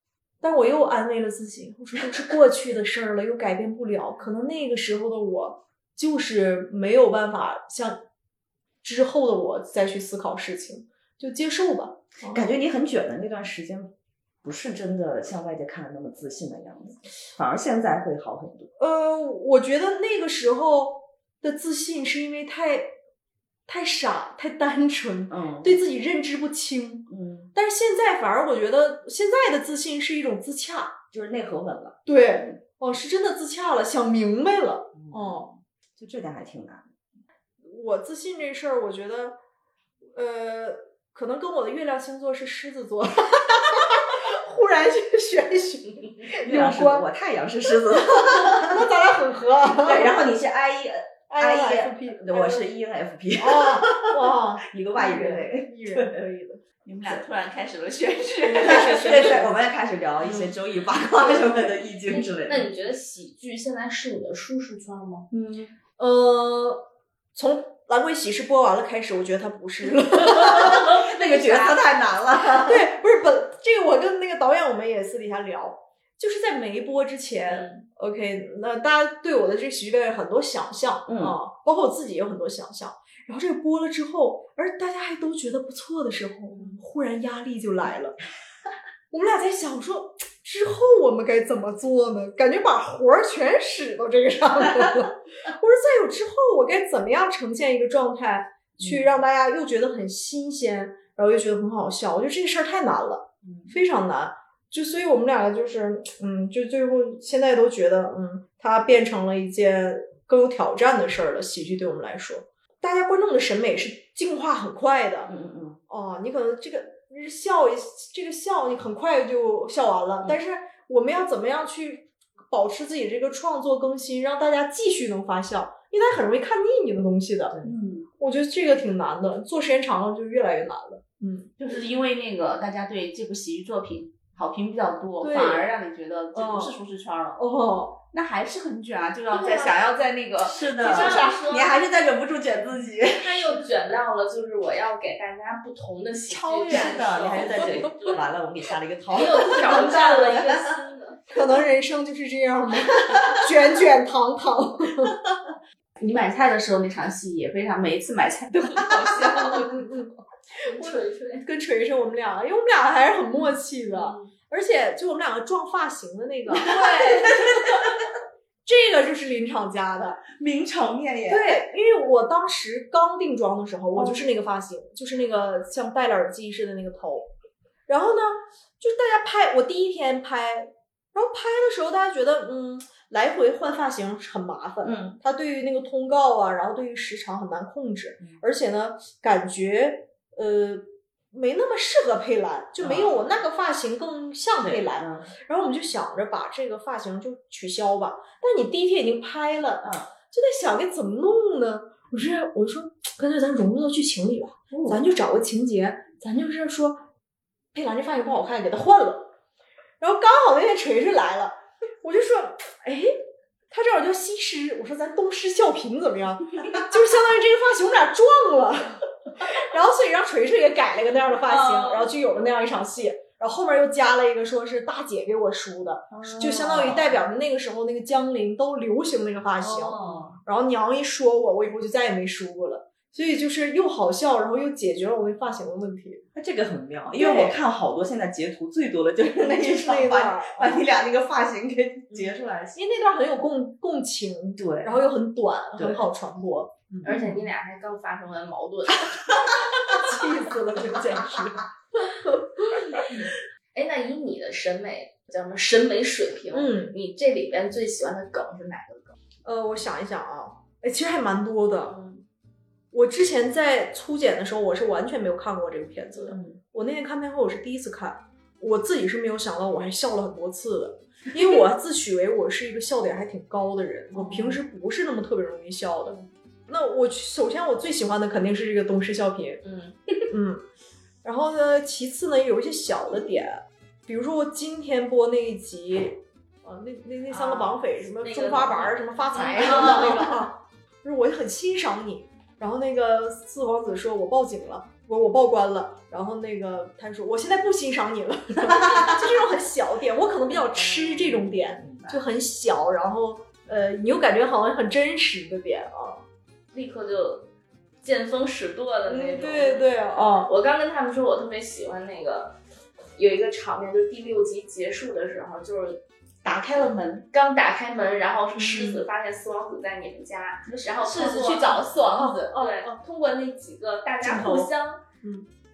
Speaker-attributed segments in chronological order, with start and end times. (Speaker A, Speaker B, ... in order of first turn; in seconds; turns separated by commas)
Speaker A: 0.4-8.0, Speaker A: 8.8-12.5, Speaker B: 12.3-18.7, Speaker A: 18.8-22.9, Speaker A: 23.7-31.0, Speaker B: 25.3-25.8, Speaker B: 27.1-27.5, Speaker B: 31.1-32.5, Speaker A: 32.0-35.5, Speaker B: 35.0-36.9, Speaker A: 37.6-39.4, Speaker A: 40.1-47.1, Speaker B: 46.4-48.9, Speaker A: 48.0-50.2, Speaker B: 49.6-56.2, Speaker A: 51.3-52.7, Speaker A: 53.4-56.6, Speaker C: 56.8-59.4, Speaker A: 58.4-59.4, Speaker B: 58.5-62.7, Speaker D: 62.1-65.3, Speaker B: 65.3-65.7, Speaker A: 66.0-66.8, Speaker A: 67.3-71.0, Speaker B: 70.2-72.9, Speaker D: 71.0-71.7, Speaker A: 72.6-88.2, Speaker B: 81.1-81.3, Speaker A: 89.1-115.3, Speaker B: 115.3-115.8, Speaker A: 115.9-127.6, Speaker C: 127.6-128.1, Speaker A: 128.2-131.5, Speaker C: 131.6-137.4, Speaker A: 135.2-135.7, Speaker A: 136.3-136.8, Speaker A: 137.4-138.0, Speaker C: 138.1-141.4, Speaker D: 139.3-139.9, Speaker B: 140.4-143.6, Speaker D: 140.7-141.8, Speaker D: 143.1-148.3, Speaker B: 146.3-150.7, Speaker D: 149.1-151.2, Speaker A: 151.3-155.2, Speaker C: 156.0-159.8, Speaker A: 159.4-167.9, Speaker D: 160.7-161.5, Speaker D: 163.9-164.3, Speaker B: 166.6-167.8, Speaker C: 166.6-167.0, Speaker A: 168.6-170.2, Speaker B: 170.3-171.6, Speaker A: 171.3-177.3, Speaker A: 177.9-207.0, Speaker B: 184.8-185.2, Speaker B: 192.8-193.3, Speaker B: 194.6-195.3, Speaker B: 199.8-200.1, Speaker B: 204.7-205.0, Speaker A: 207.7-209.3, Speaker A: 210.0-213.1, Speaker A: 213.7-236.2, Speaker C: 221.6-221.9, Speaker B: 226.1-227.2, Speaker B: 229.6-230.4, Speaker B: 236.3-242.8, Speaker A: 237.1-237.6, Speaker A: 239.4-240.8, Speaker A: 242.1-247.2, Speaker B: 244.6-245.0, Speaker B: 245.8-246.1, Speaker D: 247.0-249.4, Speaker A: 249.9-253.2, Speaker D: 253.7-259.1, Speaker A: 256.5-256.9, Speaker A: 259.4-262.0, Speaker D: 261.9-262.2, Speaker A: 262.9-276.1, Speaker A: 276.7-279.6, Speaker D: 279.6-280.0, Speaker A: 280.3-280.6, Speaker A: 281.2-306.2, Speaker D: 287.3-290.5, Speaker C: 289.8-290.2, Speaker B: 298.7-299.1, Speaker B: 301.2-302.2, Speaker D: 306.7-307.5, Speaker D: 308.0-312.6, Speaker A: 309.1-310.5, Speaker D: 313.1-316.0, Speaker C: 316.4-317.2, Speaker D: 317.3-325.0, Speaker A: 318.5-319.0, Speaker C: 320.7-322.4, Speaker A: 322.1-323.0, Speaker A: 324.2-324.7, Speaker A: 325.2-325.5